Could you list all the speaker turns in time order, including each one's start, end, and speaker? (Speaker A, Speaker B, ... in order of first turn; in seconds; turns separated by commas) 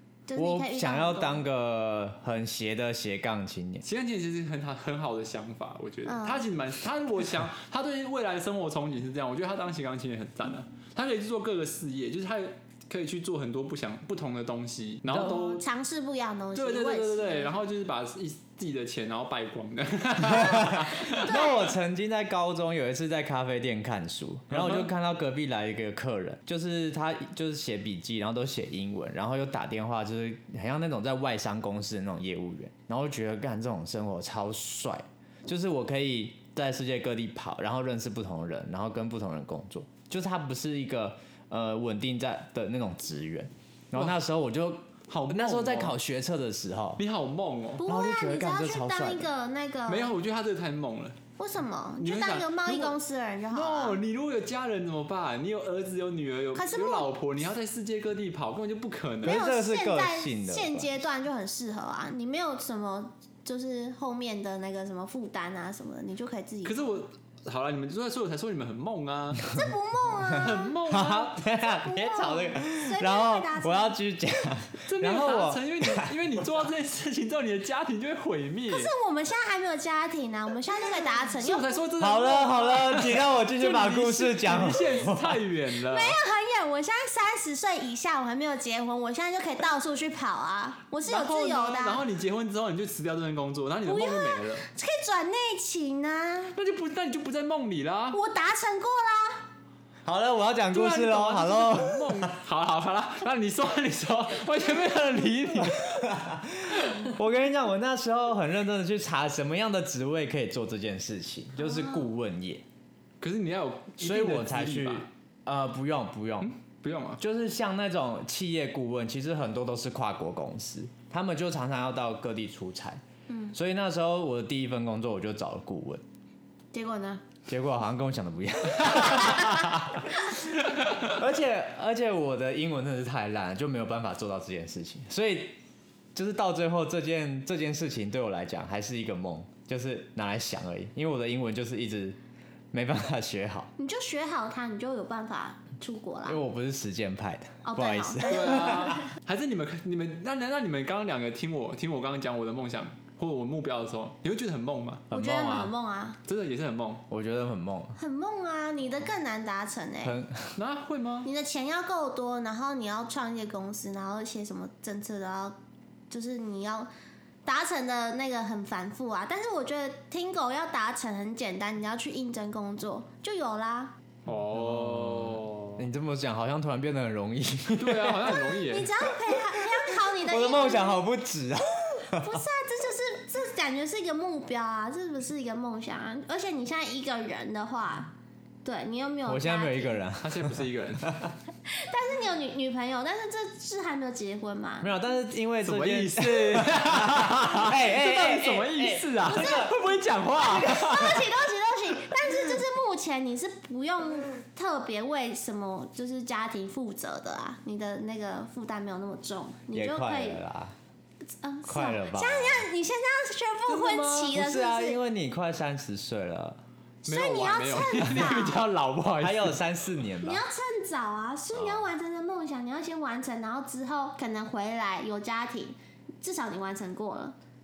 Speaker A: 0.3-1.4, Speaker B: 0.3-3.8, Speaker C: 3.8-15.6, Speaker A: 6.0-6.5, Speaker A: 15.1-17.5, Speaker C: 16.5-21.3, Speaker B: 20.3-47.0, Speaker A: 21.0-21.7, Speaker C: 24.5-24.9, Speaker C: 43.9-44.2, Speaker C: 45.1-46.0, Speaker C: 47.0-47.9, Speaker A: 47.8-50.1, Speaker B: 47.8-49.3, Speaker C: 49.9-51.2, Speaker A: 51.4-54.0, Speaker C: 52.0-53.0, Speaker C: 53.5-59.4, Speaker A: 56.5-57.1, Speaker B: 59.2-60.9, Speaker A: 59.2-66.8, Speaker C: 66.6-69.5, Speaker A: 69.5-70.8, Speaker C: 70.3-71.4, Speaker B: 70.9-76.2, Speaker A: 71.5-74.0, Speaker C: 74.8-78.9, Speaker A: 78.7-81.8, Speaker C: 81.4-86.2, Speaker B: 82.0-85.4, Speaker A: 85.9-92.0, Speaker C: 91.0-94.7, Speaker A: 93.8-96.6, Speaker C: 96.5-98.2, Speaker A: 98.1-99.4, Speaker B: 100.0-102.3, Speaker C: 100.7-106.0, Speaker B: 105.8-112.6, Speaker A: 111.6-112.1, Speaker C: 113.2-115.1, Speaker B: 114.0-116.5, Speaker C: 116.4-117.2, Speaker B: 117.2-123.0, Speaker A: 123.3-123.5, Speaker B: 123.5-126.0, Speaker A: 126.7-127.2, Speaker B: 127.5-135.6, Speaker C: 130.7-131.1, Speaker B: 136.1-142.2, Speaker B: 142.7-143.7, Speaker A: 143.8-146.4, Speaker B: 146.2-149.0, Speaker A: 147.6-149.0, Speaker C: 148.2-155.1, Speaker B: 155.1-155.7, Speaker A: 155.1-156.2, Speaker C: 156.2-157.0, Speaker B: 157.1-158.0, Speaker A: 158.0-160.2, Speaker B: 160.0-160.5, Speaker C: 160.6-161.3, Speaker A: 161.2-165.6, Speaker A: 166.1-166.9, Speaker A: 167.4-173.9, Speaker C: 174.2-175.8, Speaker B: 174.5-178.3, Speaker C: 177.7-178.9, Speaker A: 178.5-181.0, Speaker B: 179.3-182.4, Speaker A: 182.2-188.1, Speaker A: 188.6-190.0, Speaker B: 189.2-191.3, Speaker C: 190.2-191.2, Speaker A: 191.7-195.0, Speaker B: 194.8-199.7, Speaker C: 195.6-201.2, Speaker A: 199.3-199.7, Speaker A: 200.3-210.4, Speaker B: 209.7-210.7, Speaker A: 211.4-215.0, Speaker B: 211.7-212.7, Speaker C: 213.7-214.3, Speaker B: 214.3-216.6, Speaker A: 217.0-218.6, Speaker C: 217.0-219.6, Speaker B: 219.2-220.4, Speaker A: 220.2-227.3